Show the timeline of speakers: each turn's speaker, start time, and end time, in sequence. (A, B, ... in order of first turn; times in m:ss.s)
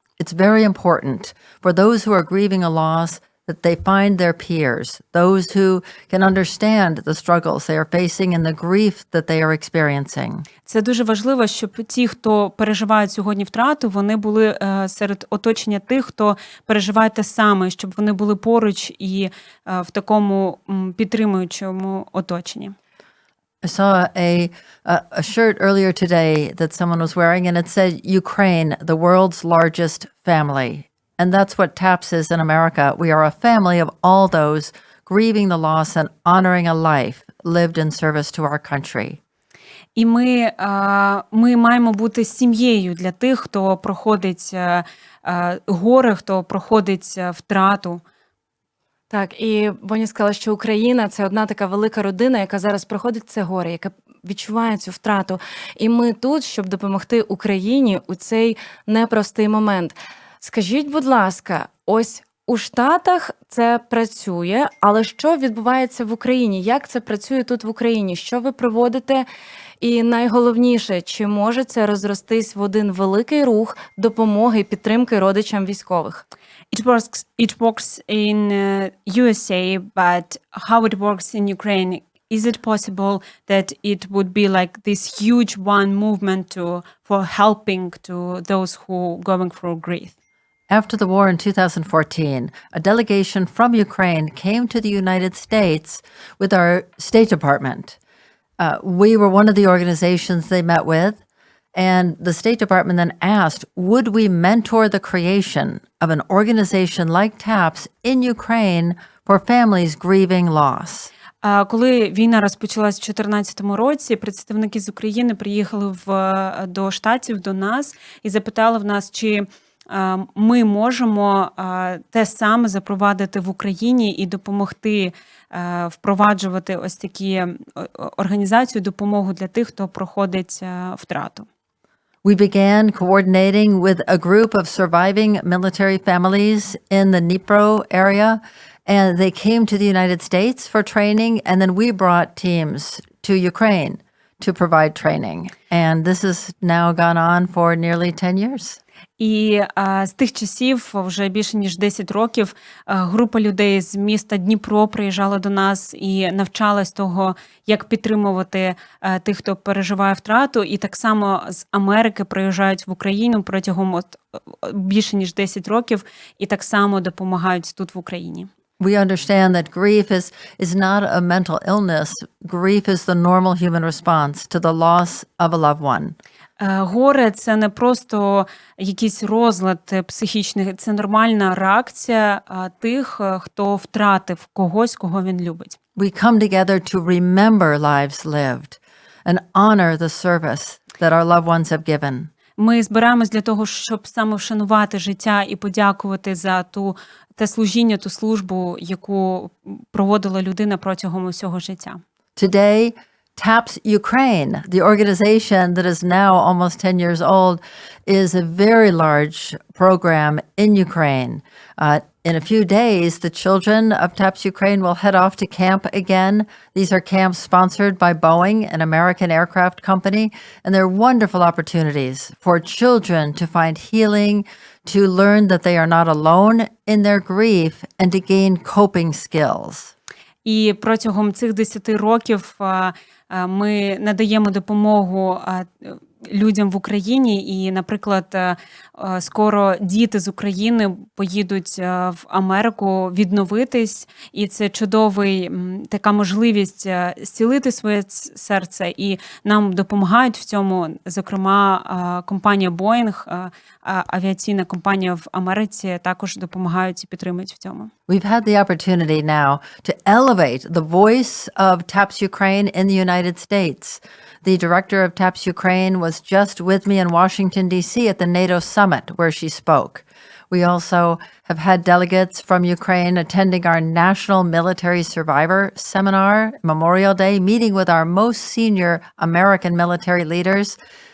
0:00.2-0:10.4 A
0:10.7-0:22.8 B
0:23.6-0:39.2 A
0:40.0-0:48.0 B
0:49.1-1:09.3 C
1:09.8-1:16.2 C
1:16.7-1:30.1 B
1:30.7-1:38.0 A
1:38.6-1:41.2 A
1:41.7-1:51.1 A
1:51.4-2:11.5 B
2:12.2-2:28.8 A
2:29.2-2:48.5 B
2:48.8-2:56.2 A
2:56.6-3:05.8 B
3:06.0-3:12.3 A
3:12.6-3:22.0 B
3:22.4-3:49.9 A
3:50.4-4:17.9 B
4:18.1-4:40.8 A